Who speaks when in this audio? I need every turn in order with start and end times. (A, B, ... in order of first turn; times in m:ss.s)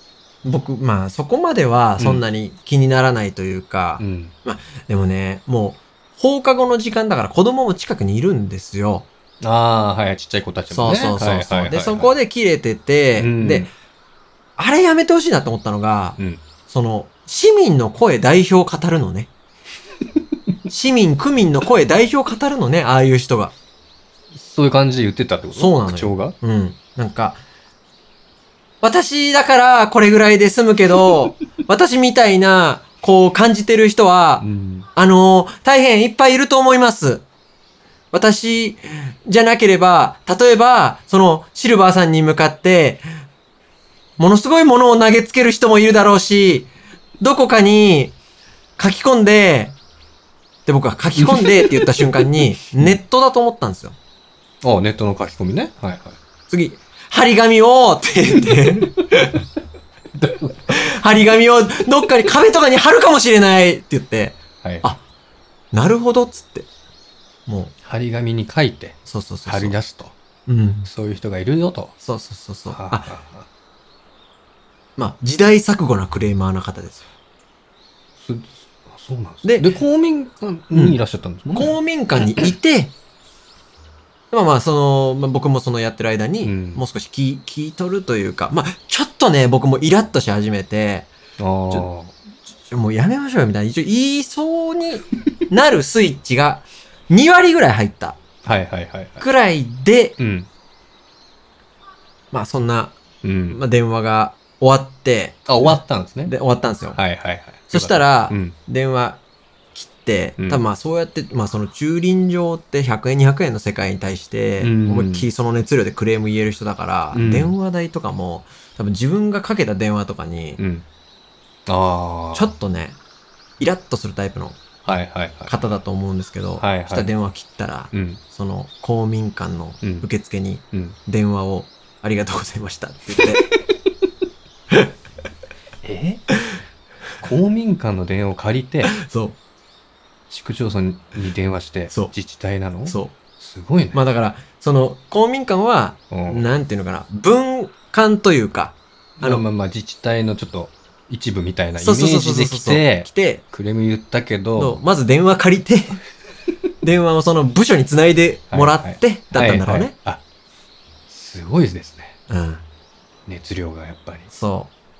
0:00.4-0:09.1 A
0:02.0-0:02.2 B
0:04.0-0:04.3 B
0:09.4-0:12.1 B
0:10.7-0:13.7 A
0:13.2-0:13.7 B
0:14.6-0:19.3 A
0:16.2-0:16.4 B
0:20.7-0:23.5 A
0:24.3-0:26.3 B
0:25.5-0:27.4 A
0:28.8-0:37.2 A
0:34.4-0:34.9 B
0:38.1-0:43.0 A
0:44.2-0:48.1 A
0:48.8-0:49.8 A
0:50.6-0:54.0 A
0:51.2-0:53.0 B
0:54.6-0:56.2 B
0:56.5-0:59.4 A
1:00.1-1:00.7 B
1:00.7-1:05.0 A
1:04.6-1:04.8 B
1:05.7-1:06.7 A
1:07.5-1:07.7 A
1:07.8-1:10.1 B
1:09.0-1:09.8 A
1:10.5-1:10.9 A
1:10.8-1:11.9 B
1:12.0-1:13.1 A
1:12.7-1:13.5 B
1:15.0-1:17.1 A
1:18.2-1:21.8 B
1:19.4-1:19.7 A
1:20.7-1:21.0 A
1:21.5-1:22.9 A
1:24.3-1:31.1 A
1:26.4-1:26.8 B
1:31.4-1:32.1 B
1:32.5-1:38.2 A
1:38.4-1:39.2 B
1:39.2-1:40.2 A
1:40.2-1:40.5 B
1:42.3-1:43.0 A
1:43.2-1:43.6 B
1:43.5-1:45.6 A
1:45.5-1:46.3 B
1:46.2-1:47.0 A
1:46.9-1:48.6 B
1:47.7-1:49.2 A
1:49.7-2:00.6 A
1:50.4-1:50.6 B
1:54.6-1:55.3 B
1:57.1-1:57.5 B
2:00.6-2:00.8 B
2:01.7-2:02.5 B
2:02.3-2:03.0 A
2:03.6-2:04.6 A
2:04.8-2:05.6 B
2:05.5-2:13.5 A
2:06.6-2:07.1 B
2:07.9-2:08.2 B
2:09.8-2:10.1 B
2:10.7-2:11.0 B
2:15.8-2:16.2 B
2:17.2-2:19.0 B
2:18.9-2:19.4 A
2:20.3-2:24.0 B
2:22.8-2:23.1 A
2:23.9-2:29.4 A
2:26.1-2:26.4 B
2:29.2-2:34.8 B
2:31.8-2:33.4 A
2:34.6-2:36.0 A
2:36.8-2:39.9 A
2:38.5-2:40.2 B
2:41.1-2:42.2 B
2:42.3-2:42.6 A
2:43.3-2:44.3 B
2:44.3-2:44.7 A